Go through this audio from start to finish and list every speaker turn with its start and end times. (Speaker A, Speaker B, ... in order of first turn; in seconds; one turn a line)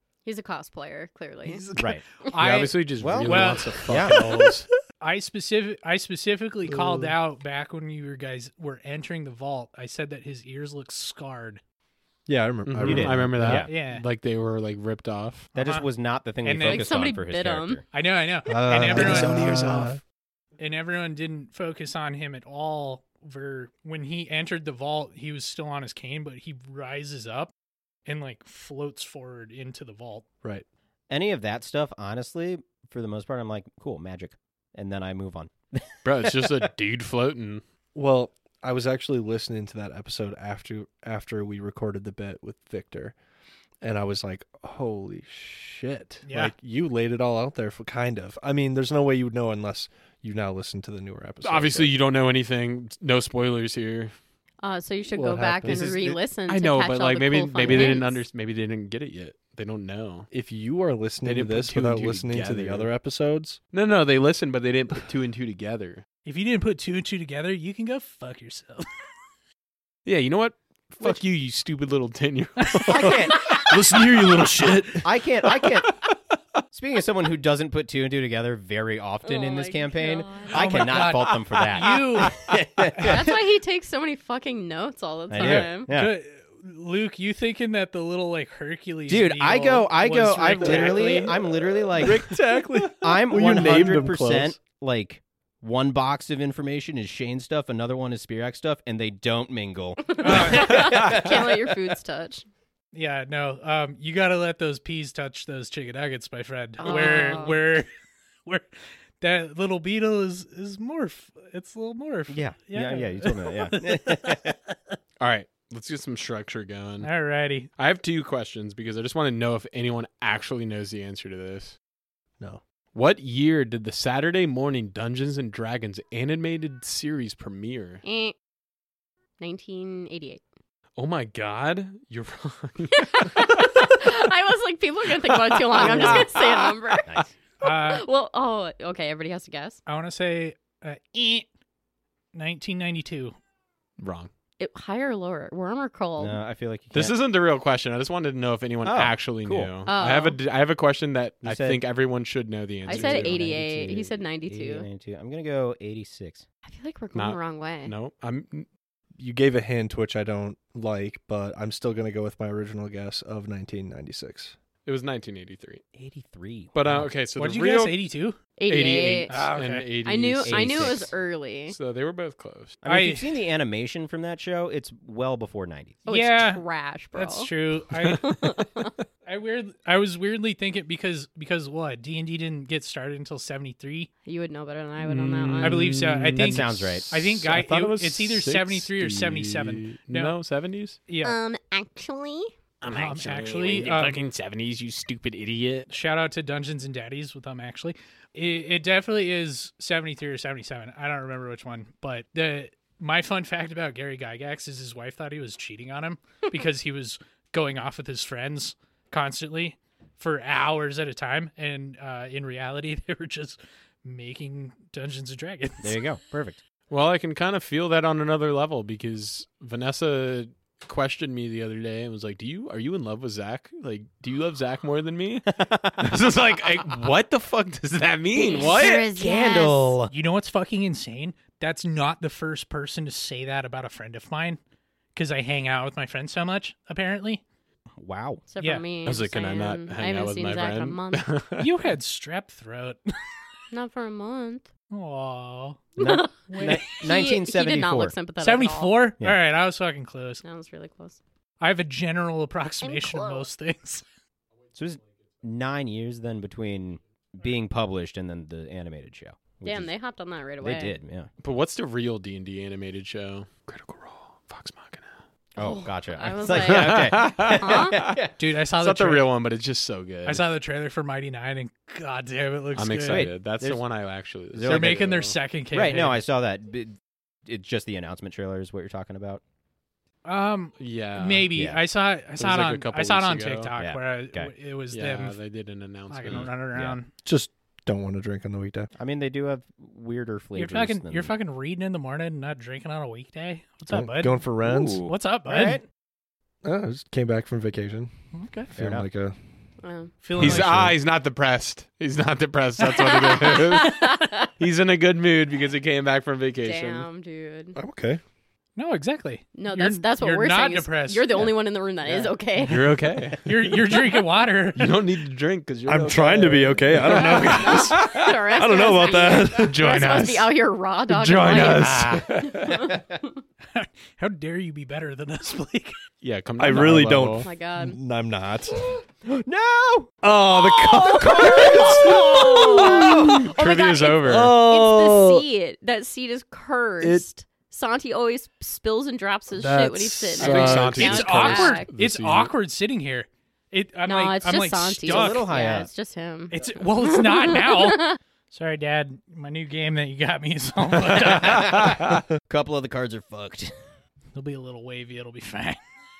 Speaker A: 0.2-1.7
Speaker B: 1.4-4.4
Speaker C: 1.7-2.0
Speaker D: 2.4-4.7
Speaker C: 3.0-4.2
Speaker B: 5.0-11.6
Speaker E: 6.7-7.2
Speaker E: 12.3-13.7
Speaker D: 12.7-15.5
Speaker C: 12.8-13.7
Speaker B: 13.6-14.0
Speaker C: 15.5-17.8
Speaker B: 15.5-15.9
Speaker B: 16.4-16.9
Speaker A: 16.6-17.8
Speaker B: 17.9-19.9
Speaker E: 18.5-20.0
Speaker C: 18.8-19.5
Speaker B: 20.6-27.5
Speaker B: 28.1-30.2
Speaker C: 31.1-36.6
Speaker D: 36.0-37.6
Speaker E: 37.9-43.1
Speaker E: 43.8-51.9
Speaker B: 46.2-46.5
Speaker D: 51.4-54.1
Speaker A: 54.6-58.2
Speaker E: 55.1-56.2
Speaker D: 56.5-60.3
Speaker E: 57.6-57.9
Speaker E: 60.3-63.6
Speaker D: 61.2-62.9
Speaker D: 63.7-66.0
Speaker B: 66.2-68.8
Speaker D: 70.0-74.9
Speaker C: 72.8-73.6
Speaker E: 73.0-75.1
Speaker C: 75.0-75.9
Speaker C: 76.7-83.3
Speaker A: 79.2-80.9
Speaker B: 80.5-82.4
Speaker D: 81.5-82.4
Speaker B: 82.9-83.2
Speaker A: 83.0-85.9
Speaker C: 85.3-86.1
Speaker E: 85.4-85.6
Speaker B: 85.4-92.4
Speaker C: 89.1-92.3
Speaker E: 92.0-94.6
Speaker C: 92.9-101.6
Speaker A: 100.0-102.5
Speaker B: 100.2-100.8
Speaker D: 100.8-101.2
Speaker B: 102.9-107.9
Speaker A: 106.8-107.6
Speaker B: 109.2-115.0
Speaker C: 112.3-114.5
Speaker D: 115.2-117.1
Speaker B: 117.0-117.7
Speaker D: 117.8-121.8
Speaker D: 122.9-128.0
Speaker A: 128.0-128.3
Speaker A: 129.4-130.4
Speaker D: 131.0-134.2
Speaker A: 132.9-139.8
Speaker D: 135.1-136.8
Speaker C: 135.8-136.3
Speaker B: 137.6-138.1
Speaker B: 139.8-141.5
Speaker B: 142.3-143.3
Speaker D: 144.0-144.3
Speaker A: 144.6-146.4
Speaker C: 146.2-147.2
Speaker D: 146.9-153.4
Speaker C: 148.8-149.7
Speaker A: 149.8-150.4
Speaker C: 151.4-151.8
Speaker A: 152.8-154.9
Speaker C: 152.9-156.4
Speaker A: 156.6-157.9
Speaker D: 157.1-158.7
Speaker E: 159.2-164.5
Speaker D: 164.8-165.8
Speaker C: 165.9-167.1
Speaker D: 166.7-168.0
Speaker B: 167.3-168.4
Speaker A: 168.6-169.4
Speaker D: 168.7-171.1
Speaker B: 169.3-169.9
Speaker A: 170.0-171.8
Speaker C: 170.4-171.1
Speaker D: 171.7-172.8
Speaker C: 172.8-176.0
Speaker B: 172.8-173.4
Speaker A: 176.0-177.5
Speaker B: 176.1-176.6
Speaker B: 177.1-178.3
Speaker A: 178.2-178.9
Speaker B: 179.2-184.1
Speaker A: 184.2-185.8
Speaker D: 185.0-191.0
Speaker B: 185.6-190.4
Speaker C: 186.3-187.1
Speaker B: 191.1-191.3
Speaker A: 191.2-192.5
Speaker D: 192.8-195.9
Speaker B: 192.9-194.2
Speaker B: 195.9-216.0
Speaker C: 215.8-216.6
Speaker D: 216.9-229.1
Speaker C: 225.5-226.2
Speaker A: 228.3-229.9
Speaker C: 228.6-230.1
Speaker B: 230.1-234.6
Speaker B: 235.1-237.4
Speaker C: 238.0-238.4
Speaker A: 238.5-241.3
Speaker B: 238.6-238.8
Speaker D: 239.0-241.7
Speaker B: 241.6-243.0
Speaker A: 243.7-244.7
Speaker B: 244.9-247.0
Speaker C: 246.0-248.2
Speaker A: 246.0-249.0
Speaker B: 248.4-250.4
Speaker A: 250.4-251.2
Speaker B: 251.6-254.0
Speaker A: 252.8-253.5
Speaker C: 254.7-259.9
Speaker A: 259.6-261.0
Speaker C: 260.6-261.3
Speaker D: 261.4-265.2
Speaker C: 265.6-268.3
Speaker A: 265.6-268.0
Speaker D: 266.5-268.2
Speaker B: 268.4-269.3
Speaker D: 268.8-270.4
Speaker B: 270.2-273.3
Speaker D: 272.8-275.4
Speaker C: 273.1-273.8
Speaker C: 274.5-275.2
Speaker B: 274.6-276.2
Speaker C: 275.7-276.9
Speaker C: 277.4-279.4
Speaker B: 280.2-285.4
Speaker D: 280.8-281.5
Speaker C: 281.5-281.8
Speaker D: 282.4-283.7
Speaker C: 283.8-284.5
Speaker D: 284.9-286.5
Speaker B: 286.1-287.1
Speaker C: 286.3-287.0
Speaker E: 287.2-288.9
Speaker C: 288.9-291.3
Speaker B: 290.5-294.4
Speaker E: 293.9-295.0
Speaker C: 294.6-295.8
Speaker B: 295.0-295.8
Speaker E: 296.6-298.1
Speaker B: 298.3-298.7
Speaker E: 298.7-299.3
Speaker C: 298.8-299.1
Speaker A: 299.8-300.1
Speaker B: 300.2-300.7
Speaker E: 300.4-300.9
Speaker D: 300.4-307.1
Speaker A: 302.9-304.5
Speaker A: 306.6-307.8
Speaker E: 307.7-308.2
Speaker B: 308.8-311.5
Speaker A: 309.6-313.0
Speaker D: 312.6-314.0
Speaker B: 313.4-315.0
Speaker D: 314.8-318.4
Speaker E: 315.9-319.9
Speaker A: 317.2-323.0
Speaker D: 319.5-320.5
Speaker D: 321.1-322.9
Speaker C: 322.8-323.1
Speaker B: 323.7-326.0
Speaker D: 326.2-327.5
Speaker E: 326.6-328.8
Speaker A: 327.4-328.0
Speaker C: 328.9-330.2
Speaker E: 330.3-332.7
Speaker C: 330.8-333.5
Speaker A: 330.9-341.9
Speaker D: 332.6-334.6
Speaker C: 334.3-335.4
Speaker E: 339.6-341.2
Speaker D: 340.3-342.5
Speaker B: 340.4-345.5
Speaker A: 344.1-348.2
Speaker C: 345.0-345.9
Speaker B: 346.5-352.0
Speaker C: 351.2-353.7
Speaker D: 351.7-352.0
Speaker B: 354.3-355.8